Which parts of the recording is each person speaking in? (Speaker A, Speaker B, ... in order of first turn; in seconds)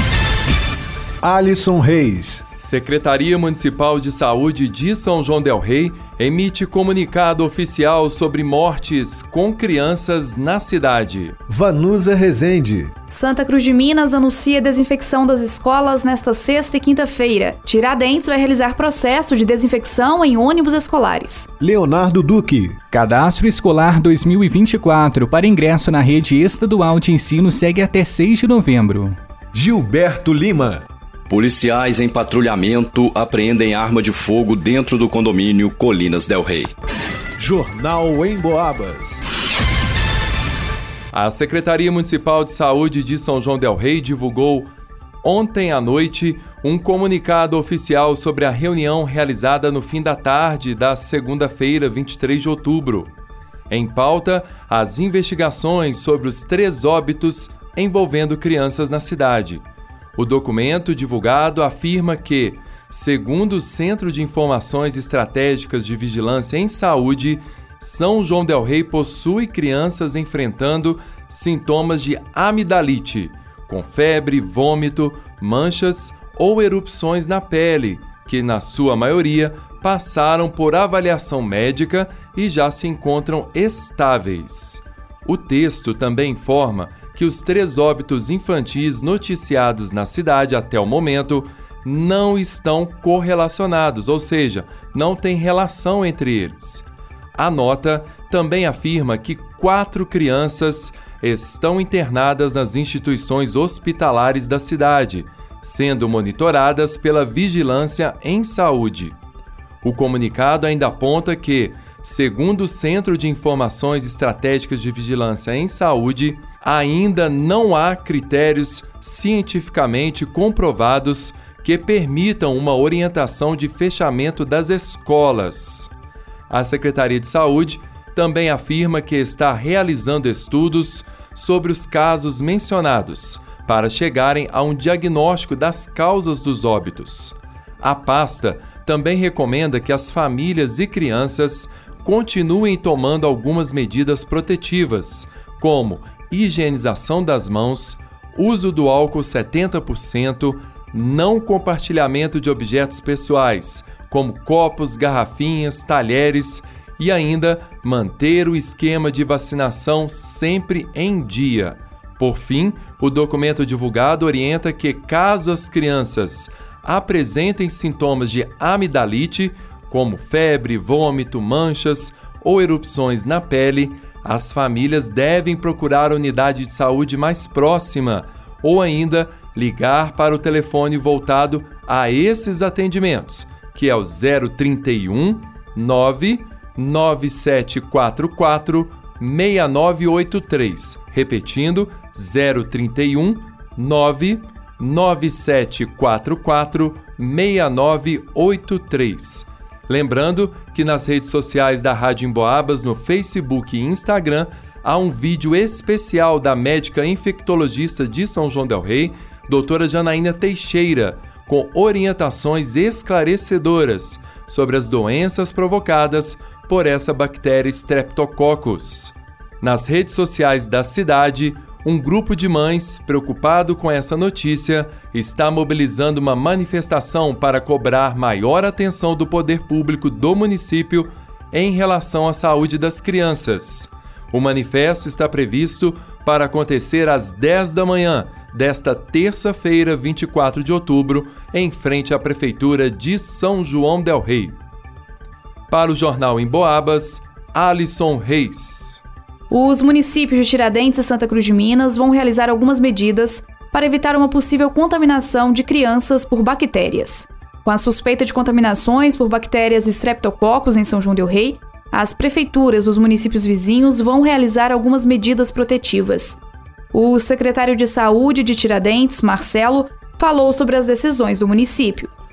Speaker A: 1.2-2.4, 11.5-12.9, 21.6-22.8, 29.5-30.8, 37.4-39.2
Speaker B: 2.6-11.3, 41.1-44.7, 45.2-53.1, 53.7-59.6, 60.1-96.8, 97.3-109.1, 109.8-125.9, 126.5-244.6, 245.7-249.0
Speaker C: 13.1-21.5, 249.5-266.4, 266.9-272.1
Speaker D: 22.9-29.2
Speaker E: 31.3-36.7